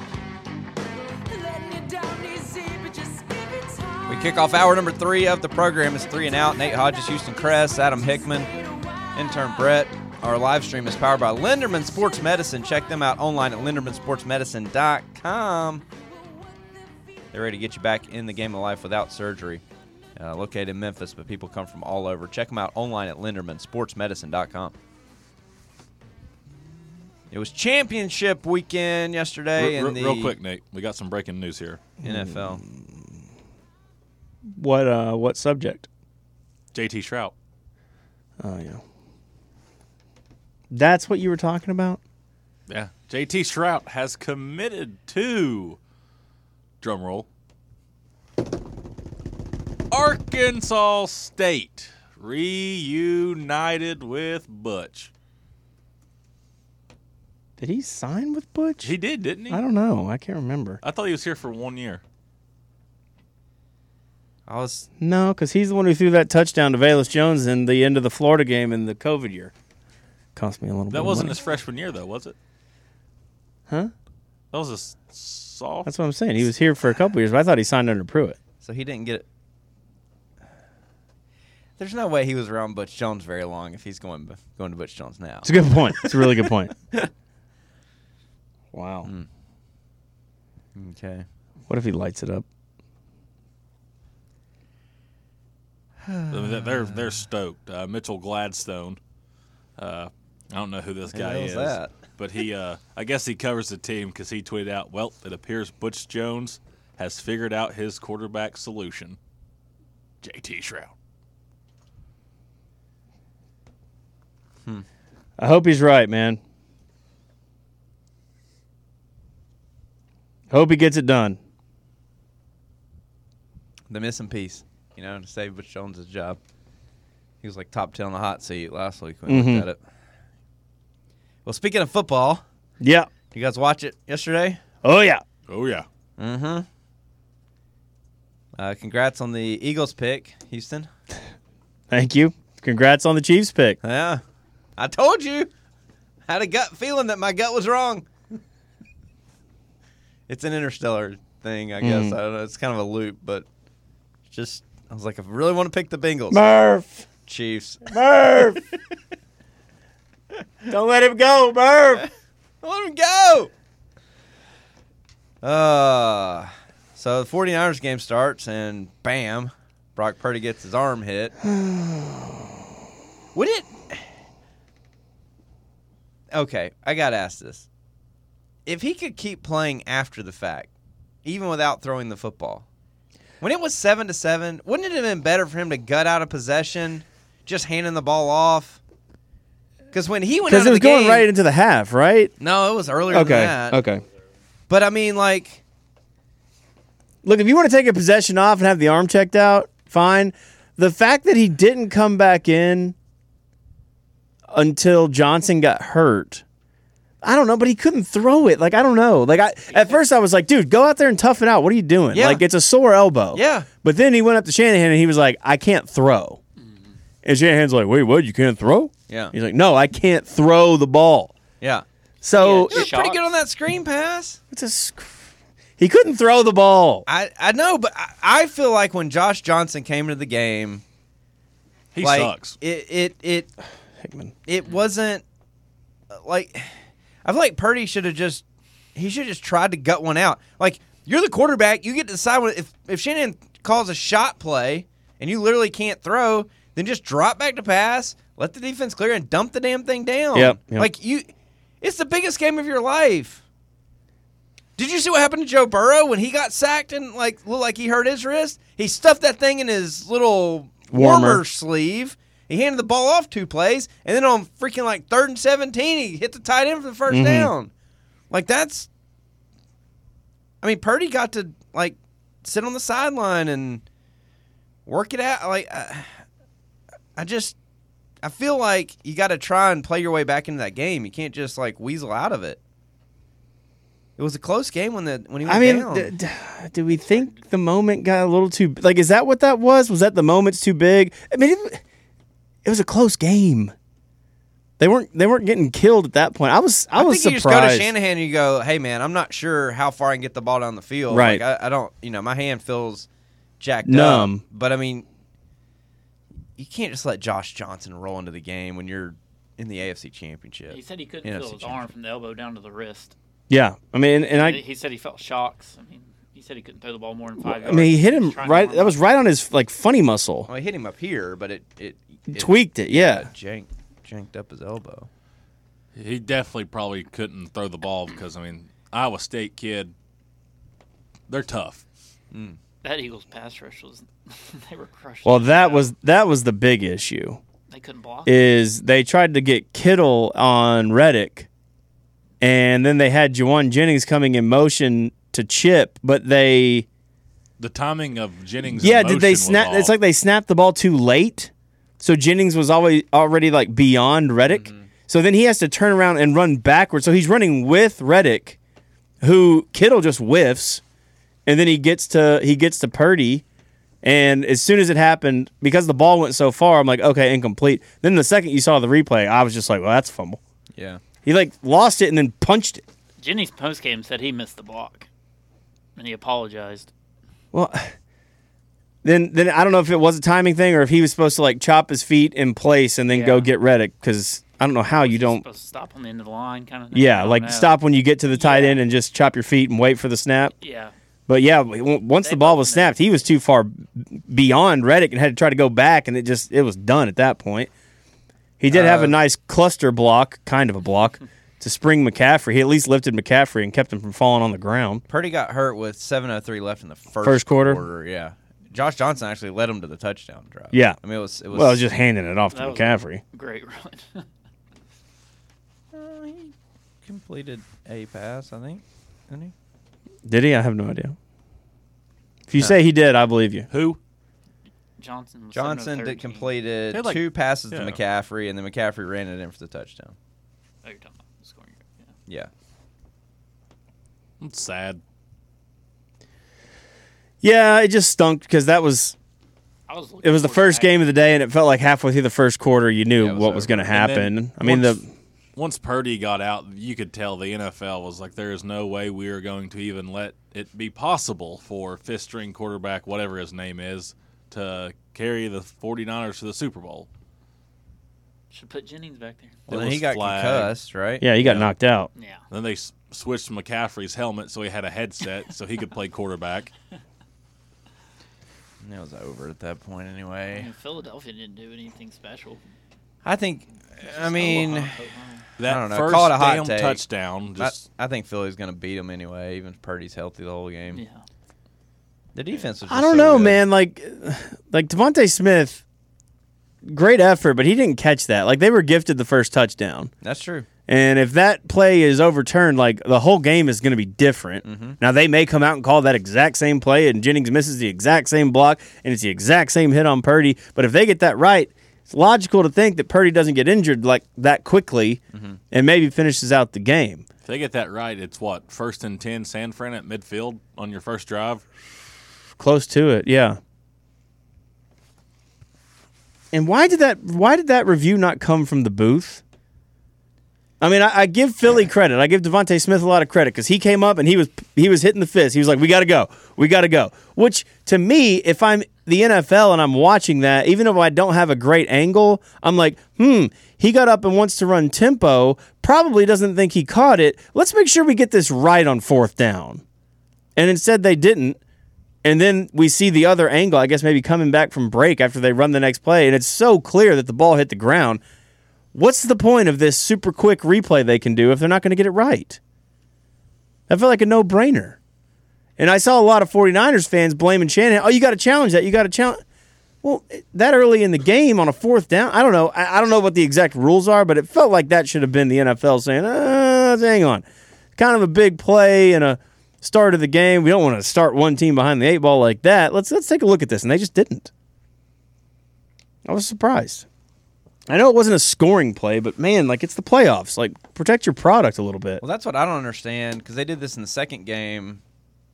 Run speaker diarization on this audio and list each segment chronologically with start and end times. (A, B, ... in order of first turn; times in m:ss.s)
0:01.2-0:04.0 A
0:04.1-0:08.5 B
0:09.1-0:15.8 B
0:17.3-0:19.6 B
0:20.2-0:24.8 B
0:27.3-0:30.4 B
0:29.6-0:31.8 C
0:32.0-0:32.6 B
0:32.0-0:33.2 D
0:34.6-0:35.9 D
0:36.7-0:37.3 C
0:38.4-0:38.8 D
0:40.7-0:42.0 D
0:42.7-0:45.8 C
0:46.8-0:47.3 C
0:49.9-0:55.1 C
0:57.6-0:59.0 D
0:58.8-0:59.6 C
0:59.5-1:00.8 D
1:00.8-1:02.0 C
1:04.5-1:04.9 B
1:05.0-1:09.5 D
1:10.4-1:11.4 D
1:10.9-1:12.4 C
1:14.5-1:15.9 C
1:15.8-1:18.4 D
1:18.6-1:19.2 B
1:21.8-1:27.0 B
1:25.4-1:26.7 D
1:28.7-1:29.1 D
1:30.8-1:31.3 B
1:31.7-1:32.5 D
1:36.0-1:36.8 B
1:36.3-1:39.0 C
1:39.8-1:49.2 C
1:41.1-1:41.9 B
1:50.2-1:50.9 C
1:55.4-1:56.4 D
2:00.5-2:01.4 D
2:03.9-2:06.4 B
2:07.4-2:09.8 B
2:09.3-2:09.7 D
2:11.4-2:12.4 B
2:12.8-2:13.1 D
2:13.3-2:14.6 B
2:14.8-2:15.2 D
2:15.5-2:15.9 C
2:16.2-2:16.7 B
2:18.6-2:20.9 B
2:21.9-2:23.8 D
2:23.8-2:24.2 B
2:24.8-2:25.5 B
2:26.3-2:28.1 B
2:30.3-2:33.5 B
2:31.8-2:32.2 D
2:34.3-2:36.4 B
2:36.3-2:37.1 D
2:37.3-2:38.8 B
2:37.9-2:38.6 D
2:40.7-2:42.0 D
2:42.6-2:43.5 B
2:45.4-2:51.4 B
2:51.4-2:52.5 D
2:53.4-2:54.0 B
2:56.3-2:57.7 B
2:58.7-3:00.7 B
3:01.2-3:02.7 B
3:03.4-3:08.8 B
3:09.9-3:11.3 B
3:10.5-3:12.3 D
3:12.4-3:13.8 B
3:13.1-3:14.0 D
3:14.7-3:15.6 B
3:17.2-3:23.0 D
3:24.5-3:26.4 D
3:27.2-3:36.4 D
3:32.1-3:32.4 B
3:33.3-3:33.7 B
3:37.2-3:41.4 D
3:39.1-3:39.3 B
3:42.2-3:42.9 D
3:42.3-3:43.2 A
3:42.7-3:44.4 B
3:44.5-3:45.2 D
3:45.8-3:47.1 D
3:47.1-3:50.8 B
3:51.9-3:52.6 C
3:52.0-3:53.5 B
3:54.0-3:54.3 D
3:54.5-3:55.2 B
3:56.1-3:56.7 B
3:57.2-3:58.4 B
3:59.0-4:11.3 B
4:10.4-4:10.9 D
4:11.8-4:13.4 B
4:14.8-4:27.7 B
4:20.9-4:21.4 D
4:27.1-4:27.5 D
4:28.3-4:28.9 B
4:30.6-4:33.8 B
4:34.9-4:36.2 B
4:37.2-4:37.6 B
4:38.2-4:42.6 B
4:44.2-4:46.1 B
4:45.4-4:51.8 D
4:47.0-4:47.4 A
4:52.6-4:53.7 D
4:54.8-4:57.9 D
4:57.0-5:03.1 B
5:01.1-5:01.4 D
5:03.6-5:05.1 B
5:03.8-5:04.4 D
5:06.6-5:11.8 B
5:10.7-5:13.2 A
5:13.5-5:14.6 D
5:14.3-5:19.0 A
5:17.4-5:20.5 D
5:20.5-5:25.1 B
5:22.3-5:23.3 D
5:26.0-5:29.9 C
5:31.3-5:31.8 C
5:32.3-5:32.6 B
5:32.8-5:35.9 A
5:35.2-5:37.4 D
5:37.7-5:38.5 A
5:38.3-5:41.5 D
5:42.4-5:46.9 D
5:47.6-5:49.9 C
5:48.7-5:58.6 D
5:54.5-5:54.9 B
5:59.2-6:00.8 D
6:01.5-6:03.4 D
6:04.0-6:10.4 D
6:10.8-6:11.0 B
6:11.2-6:12.8 D
6:13.2-6:15.1 A
6:16.0-6:16.9 A
6:17.5-6:18.0 D
6:19.0-6:25.4 D
6:23.1-6:23.5 A
6:25.0-6:27.8 A
6:26.9-6:30.5 D
6:28.3-6:28.8 A
6:30.6-6:30.9 A
6:31.3-6:37.7 D
6:32.2-6:32.9 A
6:38.6-6:45.0 D
6:38.7-6:39.2 B
6:45.1-6:51.8 B
6:47.2-6:47.8 D
6:50.7-6:51.0 D
6:51.5-6:53.2 D
6:52.5-6:54.3 A
6:55.9-6:56.5 B
6:57.0-6:59.5 B
7:00.3-7:01.2 D
7:02.5-7:03.7 D
7:03.7-7:04.0 C
7:05.0-7:06.5 A
7:05.5-7:10.2 B
7:06.9-7:08.0 C
7:10.8-7:12.1 A
7:14.4-7:15.0 C
7:17.4-7:19.2 D
7:19.9-7:20.9 A
7:20.2-7:25.1 D
7:23.2-7:23.9 B
7:23.9-7:25.0 C
7:25.6-7:37.1 C
7:38.5-7:39.6 A
7:39.7-7:41.3 B
7:39.7-7:40.7 C
7:41.2-7:42.1 D
7:41.4-7:41.7 C
7:42.2-7:42.4 A
7:42.5-7:46.7 C
7:48.8-7:50.7 B
7:50.5-7:52.6 A
7:53.2-7:55.0 B
7:54.0-7:55.4 A
7:55.6-7:57.8 C
7:55.7-7:57.0 B
7:57.6-8:01.0 B
8:00.9-8:01.2 A
8:02.4-8:03.6 B
8:02.9-8:05.8 D
8:06.8-8:10.1 D
8:10.2-8:10.7 B
8:10.9-8:27.2 D
8:14.6-8:15.0 B
8:25.3-8:25.6 B
8:27.5-8:31.6 C
8:32.6-8:33.6 D
8:36.5-8:39.4 D
8:40.8-8:59.8 D
9:00.6-9:01.6 D
9:02.2-9:08.2 D
9:08.9-9:12.6 D
9:13.9-9:15.0 D
9:15.8-9:19.4 D
9:20.0-9:27.4 D
9:28.0-9:34.5 D
9:36.2-9:37.1 D
9:37.9-9:42.2 D
9:42.2-9:45.0 B